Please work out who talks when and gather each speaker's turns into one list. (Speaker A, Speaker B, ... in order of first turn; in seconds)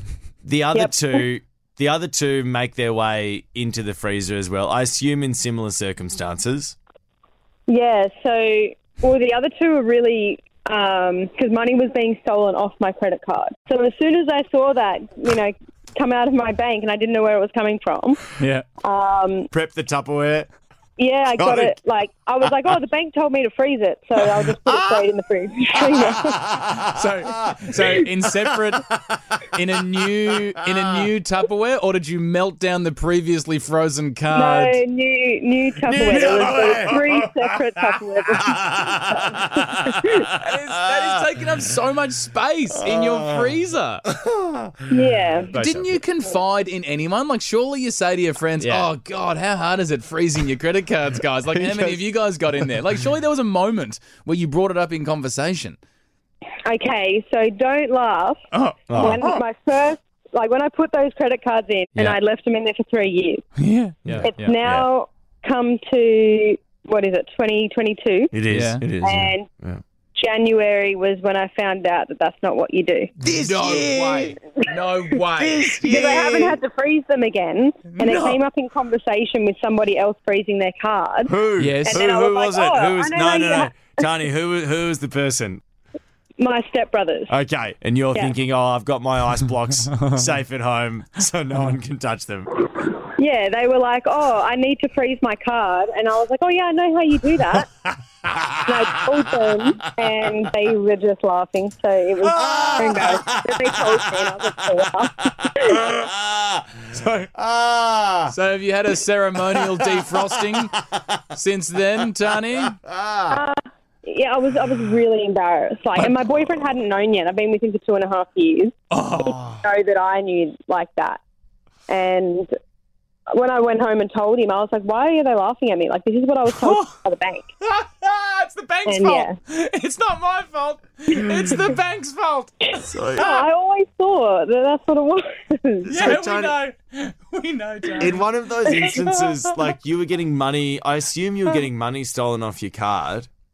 Speaker A: 0.4-6.8, 19.5-20.5, 21.4-21.8, 24.2-25.1, 26.0-29.4, 35.8-41.2, 42.8-43.5, 44.1-46.0, 48.6-48.9, 51.5-52.0, 58.9-59.3, 64.1-64.8, 68.3-69.8, 73.2-74.4, 75.4-76.6, 78.0-78.3, 81.2-85.6, 87.3-92.5, 98.2-99.0, 102.2-108.3, 109.5-110.2, 112.6-113.4, 132.8-133.4, 135.9-136.6, 138.0-143.3
Speaker B: 0.7-1.2, 7.7-18.2, 18.8-19.5, 21.0-26.4, 34.3-40.2, 44.9-45.5, 56.6-58.4, 58.9-63.4, 64.2-68.3, 69.0-69.5, 70.2-73.1, 75.8-84.1, 86.4-87.3, 93.1-97.7, 98.6-105.9, 113.3-121.2, 121.9-122.5, 123.3-127.5, 128.9-129.4, 132.7-135.9, 138.7-138.9
Speaker C: 18.4-18.6, 26.8-28.9, 29.5-34.8, 36.0-36.9, 40.4-44.0, 45.5-55.8, 58.5-59.4, 63.6-64.6, 68.5-68.8, 73.3-75.8, 77.9-78.3, 81.6-82.0, 106.9-107.3, 108.3-112.8, 116.0-116.2, 118.9-119.6, 126.5-126.9, 127.6-132.6, 135.9-138.2